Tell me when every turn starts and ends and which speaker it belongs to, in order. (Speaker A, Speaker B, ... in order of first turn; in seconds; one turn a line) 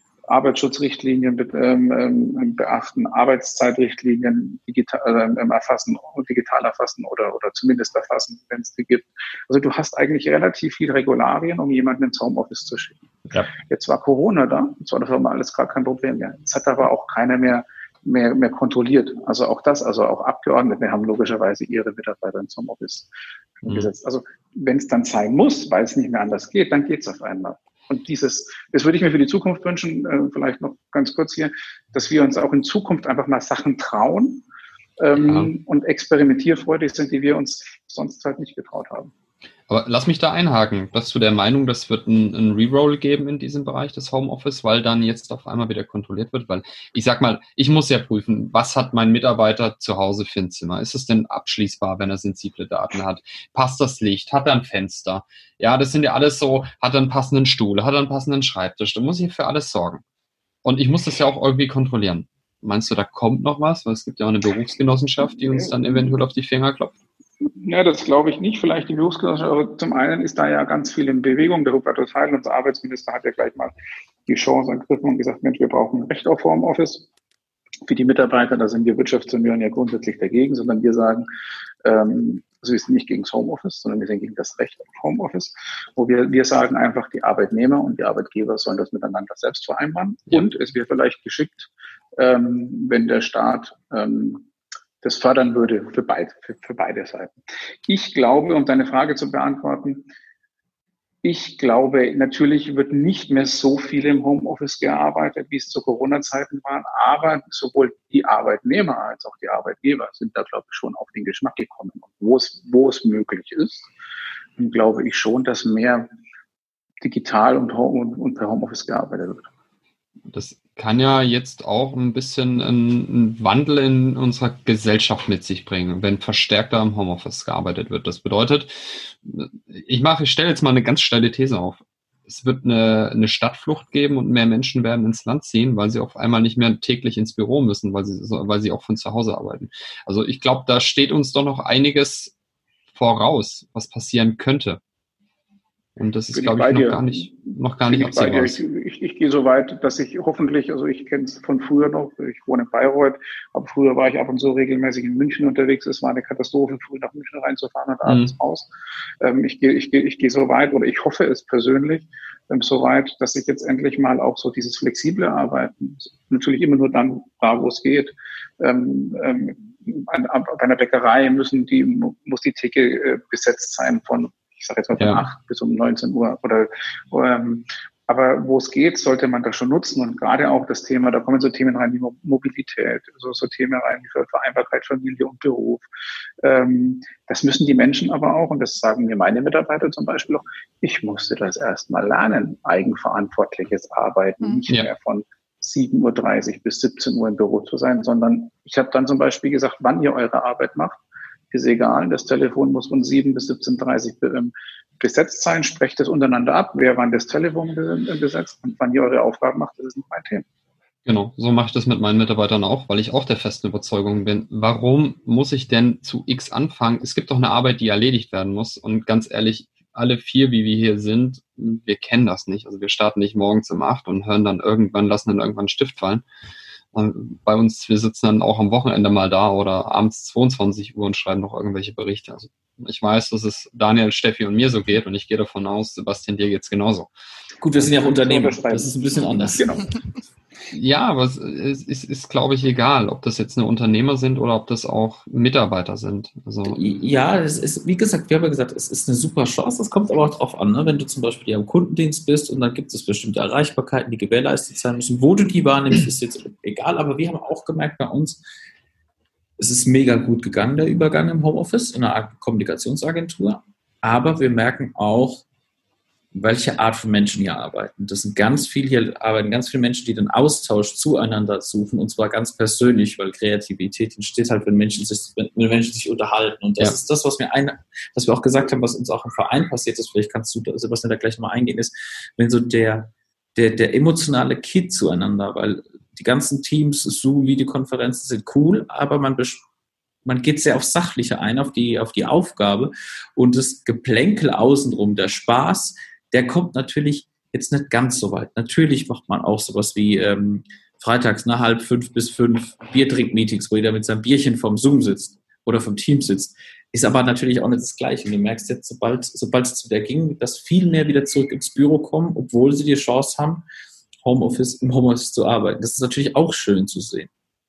Speaker A: 0.3-13.0
Speaker A: 13.6-34.4
Speaker A: 35.0-39.1
Speaker B: 35.2-35.5
Speaker B: 39.7-60.0
Speaker B: 60.6-66.9
Speaker A: 67.4-73.7
Speaker A: 74.3-77.1
Speaker A: 77.9-81.3
Speaker A: 81.8-94.5
Speaker A: 95.0-100.1
Speaker A: 101.2-113.9
Speaker A: 114.6-116.1
Speaker A: 117.0-119.5
Speaker B: 120.3-142.3
Speaker B: 142.9-144.8
Speaker B: 145.9-148.6
Speaker A: 146.3-147.3
Speaker A: 147.8-158.7
Speaker B: 158.0-158.3
Speaker A: 159.2-185.8
Speaker B: 175.0-175.2
Speaker A: 186.4-201.0
Speaker A: 201.5-210.4
Speaker B: 211.1-226.2
Speaker B: 226.9-237.1
Speaker C: 237.6-239.7
Speaker A: 237.9-239.9
Speaker B: 240.7-246.8
Speaker C: 246.6-258.4
Speaker C: 259.6-265.4
Speaker C: 266.3-289.6
Speaker C: 290.2-313.6
Speaker C: 314.2-317.3